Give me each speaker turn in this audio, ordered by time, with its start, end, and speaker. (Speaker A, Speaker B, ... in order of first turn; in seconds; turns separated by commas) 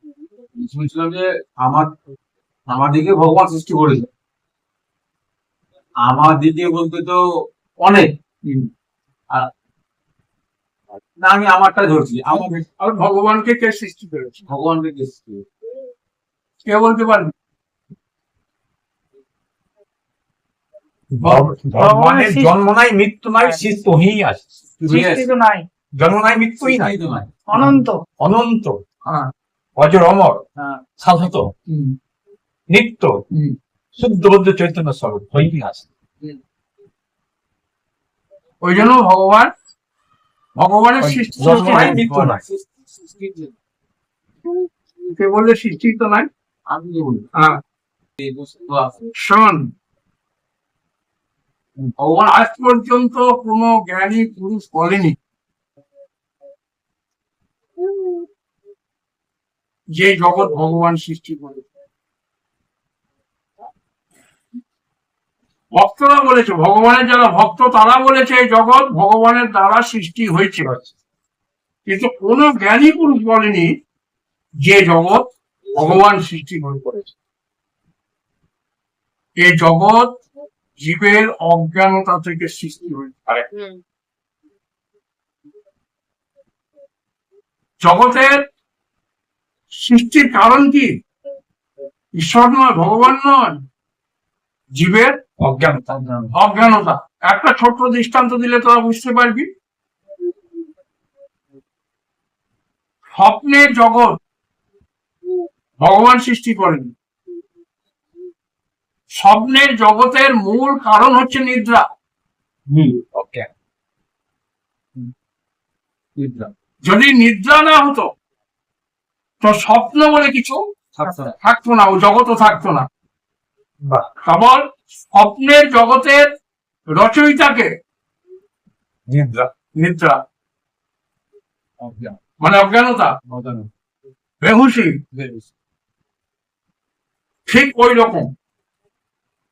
Speaker A: 0.6-1.9, Speaker A: 2.7-4.1, Speaker A: 6.0-7.2, Speaker A: 7.8-8.1, Speaker A: 11.2-12.6, Speaker B: 12.8-14.4, Speaker A: 14.5-15.4, Speaker B: 16.7-17.3, Speaker C: 21.1-24.4, Speaker B: 21.2-21.6, Speaker D: 21.8-22.6, Speaker A: 24.8-25.3, Speaker D: 24.9-25.6, Speaker C: 26.0-27.0, Speaker A: 26.6-27.7, Speaker D: 27.5-28.0, Speaker C: 28.2-28.8, Speaker C: 29.8-30.4, Speaker C: 31.0-31.5, Speaker B: 31.7-31.9, Speaker C: 32.7-33.1, Speaker C: 34.0-35.9, Speaker B: 38.6-39.5, Speaker B: 40.6-42.0, Speaker C: 41.0-42.4, Speaker A: 41.4-43.5, Speaker B: 45.1-46.3, Speaker A: 46.7-47.2, Speaker A: 48.2-49.0, Speaker B: 49.2-49.7, Speaker A: 51.8-52.4, Speaker B: 52.3-55.2, Speaker B: 60.0-61.6, Speaker B: 65.7-70.7, Speaker B: 71.9-73.7, Speaker B: 74.7-77.1, Speaker B: 79.4-80.1, Speaker B: 80.8-83.2, Speaker B: 87.8-88.3, Speaker B: 89.8-90.9, Speaker B: 92.2-93.6, Speaker B: 94.8-95.2, Speaker C: 95.4-95.8, Speaker A: 95.9-96.3, Speaker B: 96.3-99.5, Speaker B: 103.2-104.2, Speaker B: 105.8-106.9, Speaker B: 109.2-111.8, Speaker A: 112.7-113.0, Speaker C: 113.1-113.5, Speaker A: 116.2-116.5, Speaker B: 116.8-118.1, Speaker B: 119.4-120.6, Speaker A: 121.0-121.3, Speaker B: 121.4-122.9, Speaker B: 124.3-124.6, Speaker B: 125.1-126.3, Speaker B: 126.9-127.7, Speaker C: 129.1-129.5, Speaker B: 129.8-130.2, Speaker A: 131.8-132.2, Speaker B: 132.4-133.1, Speaker A: 133.3-133.7, Speaker B: 134.4-135.0, Speaker A: 135.1-135.5, Speaker B: 137.5-138.3